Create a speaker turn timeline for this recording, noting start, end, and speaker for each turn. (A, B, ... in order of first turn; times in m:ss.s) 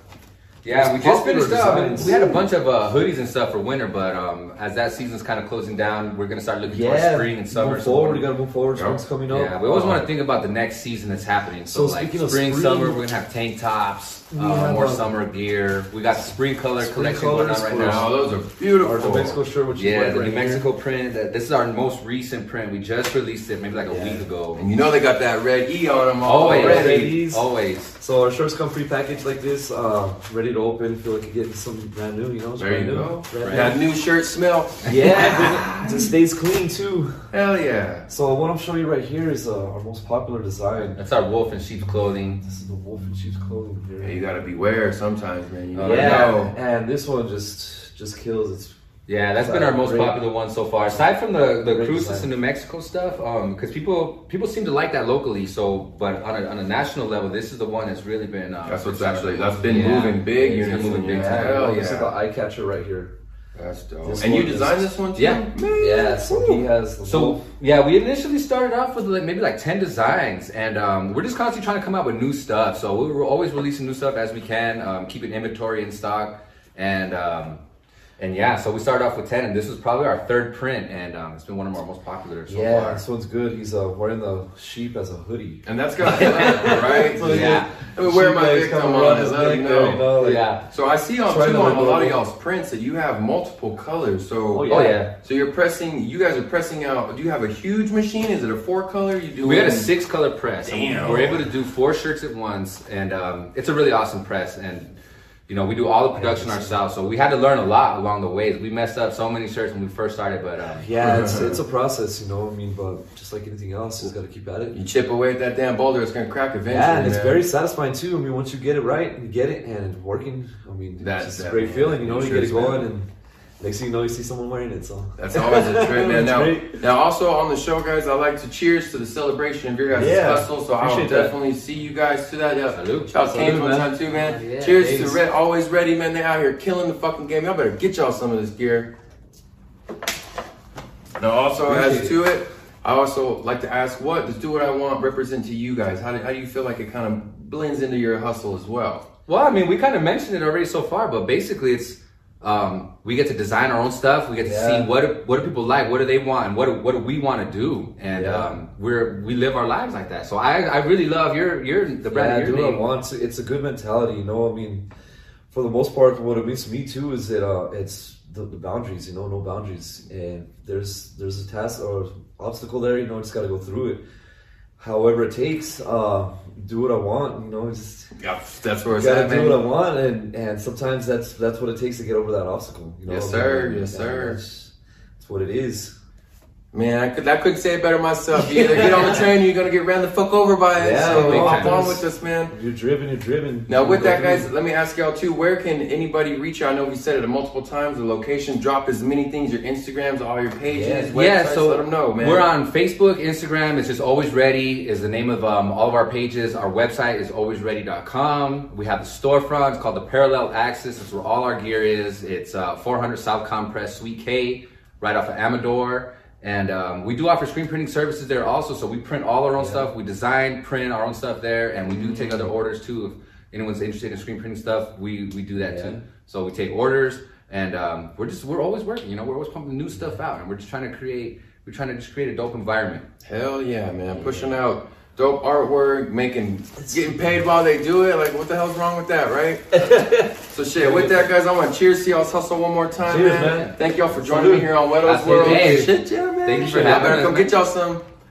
0:00.6-0:08.3 A
0:00.7-0:02.4 B
0:06.6-0:10.1 B
0:08.7-0:09.0 C
0:09.3-0:18.1 A
0:11.7-0:13.0 B
0:14.3-0:15.1 B
0:16.1-0:18.1 B
0:17.8-0:19.4 C
0:18.8-0:20.7 B
0:19.7-0:24.6 A
0:23.9-0:24.3 B
0:24.5-0:27.1 C
0:26.2-0:27.9 A
0:26.4-0:33.8 B
0:32.6-0:36.1 C
0:33.4-0:33.7 A
0:34.8-0:37.2 B
0:35.0-0:35.4 A
0:37.3-0:38.1 C
0:38.1-0:41.0 B
0:41.0-0:42.4 A
0:42.4-0:44.2 B
0:44.0-0:46.5 C
0:45.7-0:46.4 A
0:45.8-0:48.7 B
0:49.1-1:01.6 A
0:49.3-0:50.2 B
0:51.6-0:52.3 B
0:58.6-1:02.1 C
0:59.6-1:03.1 B
1:03.6-1:06.6 C
1:04.0-1:05.0 B
1:05.1-1:05.4 A
1:05.7-1:07.5 B
1:07.0-1:17.6 A
1:18.2-1:23.0 A
1:22.5-1:30.4 B
1:25.6-1:30.0 C
1:26.0-1:27.7 A
1:30.2-1:30.6 A
1:30.7-1:39.9 C
1:31.2-1:32.2 B
1:34.5-1:35.1 B
1:34.7-1:35.1 A
1:39.4-1:45.0 A
1:40.6-1:41.4 C
1:45.5-1:50.8 A
1:46.1-1:46.8 B
1:50.7-1:54.8 B
1:51.0-1:51.6 C
1:54.7-1:57.4 C
1:56.7-2:03.1 B
2:01.0-2:02.9 C
2:03.6-2:06.8 B
2:05.2-2:18.9 C
2:09.9-2:11.4 B
2:12.7-2:13.1 A
2:13.1-2:13.9 B
2:14.0-2:15.1 A
2:14.7-2:15.2 B
2:21.2-2:29.0 C
2:21.6-2:22.2 B
2:29.3-2:42.8 A
2:34.4-2:34.9 B
2:38.1-2:38.6 B
2:42.1-2:44.8 B
2:45.5-2:54.0 B
2:54.8-2:58.1 B
2:58.2-2:59.6 C
2:58.9-3:05.9 B
3:03.0-3:04.4 C
3:06.7-3:12.5 C
3:08.3-3:09.2 B
3:10.7-3:14.5 B
3:11.0-3:11.9 A
3:13.7-3:22.5 C
3:20.7-3:21.1 B
3:21.1-3:53.0 A
3:39.6-3:39.9 B
3:41.9-3:42.5 B
3:45.6-3:46.0 B
3:49.9-3:50.2 B
3:53.2-3:59.9 C
3:54.2-3:54.4 B
3:56.8-3:57.4 B
3:59.7-4:01.3 B
4:00.5-4:08.0 C
4:03.0-4:05.7 B
4:03.4-4:03.7 A
4:05.0-4:07.6 A